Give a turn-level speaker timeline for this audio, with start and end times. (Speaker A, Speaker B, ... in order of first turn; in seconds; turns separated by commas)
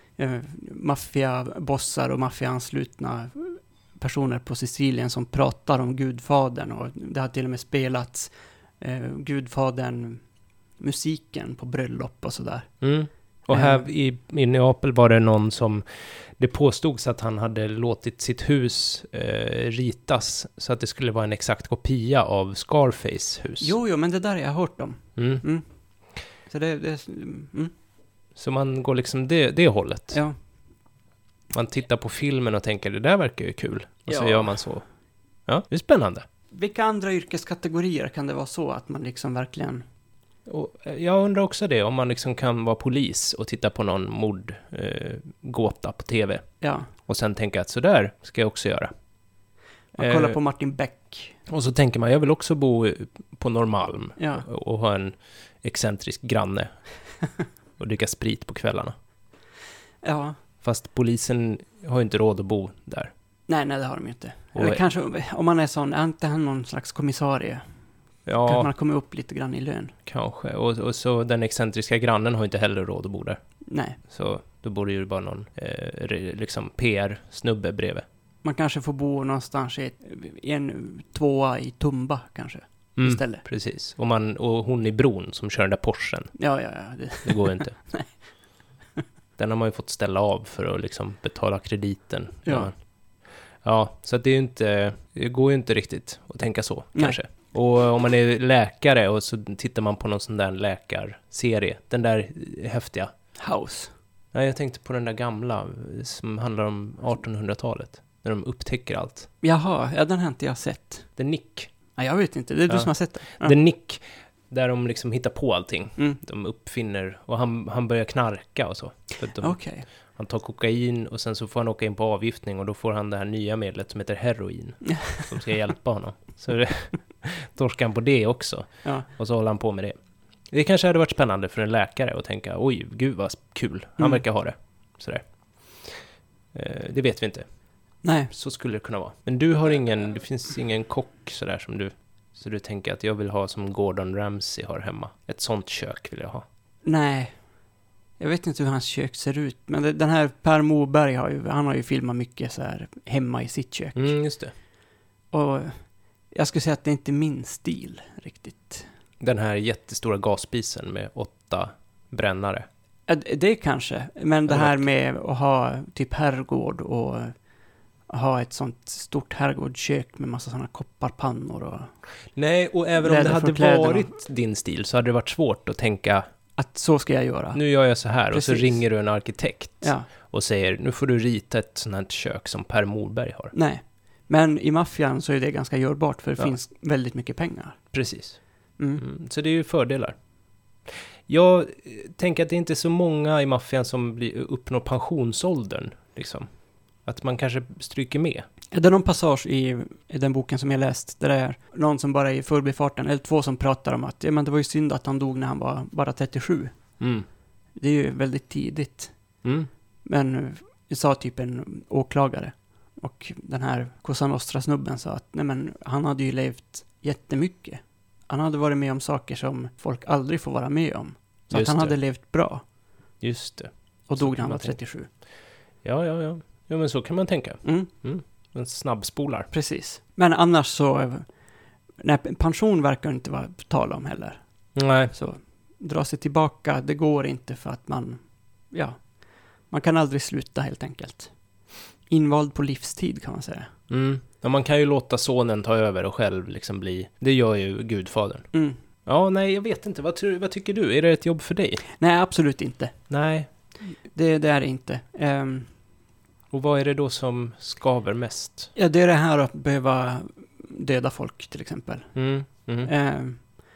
Speaker A: 0.2-10.2, Speaker A: 10.8-12.7, Speaker B: 12.8-23.7, Speaker A: 13.5-13.9, Speaker A: 23.6-25.6, Speaker B: 25.2-25.4, Speaker A: 26.5-27.7, Speaker B: 28.4-30.2, Speaker B: 31.5-34.8, Speaker A: 34.1-34.6, Speaker B: 35.5-36.3, Speaker A: 36.5-39.9, Speaker B: 40.5-46.5, Speaker A: 46.6-46.9, Speaker B: 47.0-48.9, Speaker A: 50.0-51.4, Speaker B: 50.0-50.4, Speaker B: 51.5-56.7, Speaker A: 54.2-54.5, Speaker B: 57.8-58.9, Speaker A: 60.0-60.4, Speaker B: 60.6-63.1, Speaker A: 63.5-67.6, Speaker B: 64.5-64.8, Speaker B: 68.3-68.7, Speaker A: 68.4-69.9, Speaker B: 70.1-73.4, Speaker A: 73.7-74.0, Speaker B: 74.1-78.0, Speaker A: 78.4-83.5, Speaker B: 83.0-86.3, Speaker A: 86.4-88.1, Speaker B: 87.2-87.8, Speaker B: 89.4-92.7, Speaker A: 92.5-92.7, Speaker B: 93.6-103.1, Speaker A: 103.4-103.9, Speaker B: 104.3-109.3, Speaker A: 109.4-111.1, Speaker B: 111.2-111.7, Speaker A: 112.0-113.5, Speaker B: 112.7-119.6, Speaker A: 119.4-119.9, Speaker B: 120.2-130.0, Speaker A: 124.8-125.3, Speaker B: 130.5-135.2, Speaker B: 136.5-137.4, Speaker A: 138.0-138.3, Speaker B: 138.3-146.4, Speaker A: 146.8-147.3, Speaker A: 148.2-154.1, Speaker B: 153.9-154.5, Speaker A: 155.3-155.8, Speaker A: 156.3-158.9, Speaker B: 159.2-162.7, Speaker A: 163.1-167.3, Speaker B: 164.5-164.8, Speaker A: 168.1-171.9, Speaker B: 172.3-176.2, Speaker A: 173.0-174.2, Speaker A: 176.6-177.6, Speaker B: 177.5-183.5, Speaker A: 178.3-178.8, Speaker A: 179.8-180.1, Speaker A: 183.5-187.8, Speaker B: 187.9-188.4, Speaker B: 189.0-190.2, Speaker B: 191.3-196.5, Speaker B: 197.1-198.4, Speaker A: 198.7-206.7, Speaker B: 207.0-207.3, Speaker A: 207.8-209.1, Speaker B: 209.4-209.7, Speaker A: 210.1-222.6, Speaker B: 221.5-222.0, Speaker B: 223.2-224.8, Speaker A: 224.1-225.1, Speaker B: 225.8-229.5, Speaker A: 227.6-227.9, Speaker A: 229.5-231.2, Speaker A: 232.0-234.4, Speaker B: 234.8-235.1, Speaker A: 235.1-238.2, Speaker A: 238.7-239.0, Speaker A: 239.7-241.3, Speaker A: 242.1-243.7, Speaker B: 243.9-248.5, Speaker A: 248.5-248.8, Speaker B: 249.1-251.8, Speaker A: 252.0-252.9, Speaker B: 253.1-253.5, Speaker A: 254.1-255.7, Speaker B: 256.5-258.7, Speaker A: 258.8-262.1, Speaker B: 262.1-262.9, Speaker A: 262.8-263.4